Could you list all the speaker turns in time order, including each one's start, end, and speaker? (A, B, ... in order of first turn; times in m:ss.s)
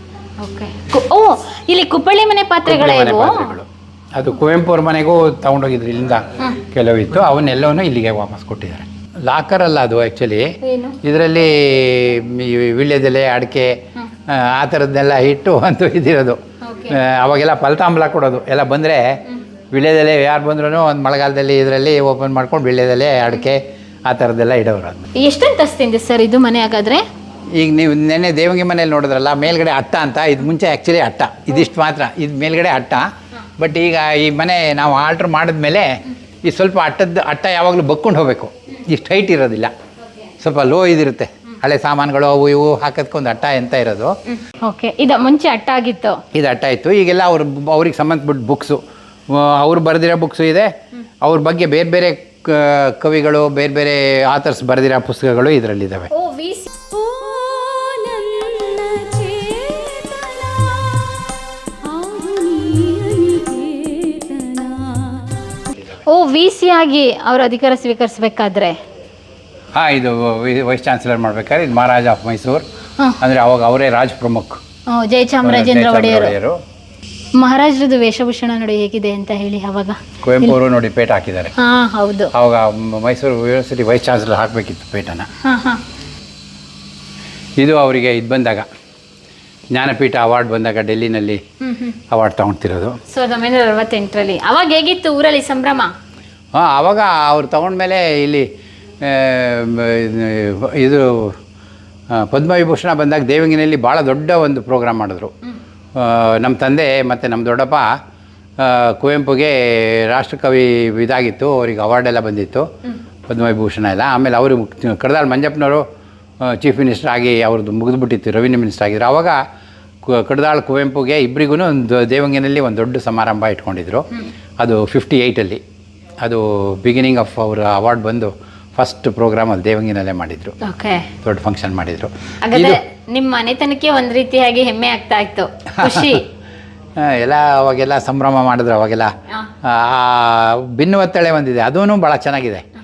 0:00.4-0:03.6 A
0:02.6-0:10.5 B
0:10.6-0:11.0 A
0:11.0-0:13.8 B
0:14.3-0:16.4 B
0:16.6-0:17.0 A
0:16.9-0:19.2 B
0:19.7-0:25.1 B
0:25.2-0:27.0 A
0:27.6-0:33.1 B
0:33.6-0:39.7 B
0:40.4-0:44.1 B
0:44.4-0:46.2 A
0:46.3-0:50.7 B
0:51.2-0:56.1 B
0:56.1-0:56.7 A
0:56.9-1:01.2 C
1:01.8-1:05.4 C
1:06.0-1:08.8 A
1:09.7-1:12.6 B
1:13.2-1:14.6 B
1:14.9-1:16.3 A
1:15.4-1:16.6 B
1:17.4-1:20.6 A
1:20.2-1:21.5 B
1:21.6-1:22.3 A
1:22.3-1:25.3 B
1:25.4-1:25.8 A
1:27.6-1:28.7 B
1:29.7-1:31.4 B
1:31.6-1:32.0 A
1:32.1-1:33.0 B
1:33.1-1:35.9 A
1:36.5-1:38.5 B
1:39.0-1:41.4 B
1:42.1-1:45.3 B
1:45.9-1:47.9 B
1:48.6-1:52.7 B
1:53.3-1:55.8 B
1:56.4-1:59.4 B
2:00.0-2:04.0 B
2:04.6-2:05.6 B
2:06.2-2:10.6 B
2:10.6-2:11.1 A
2:11.2-2:12.8 B
2:12.4-2:16.2 A
2:15.7-2:16.2 B
2:17.0-2:19.1 B
2:19.6-2:22.6 B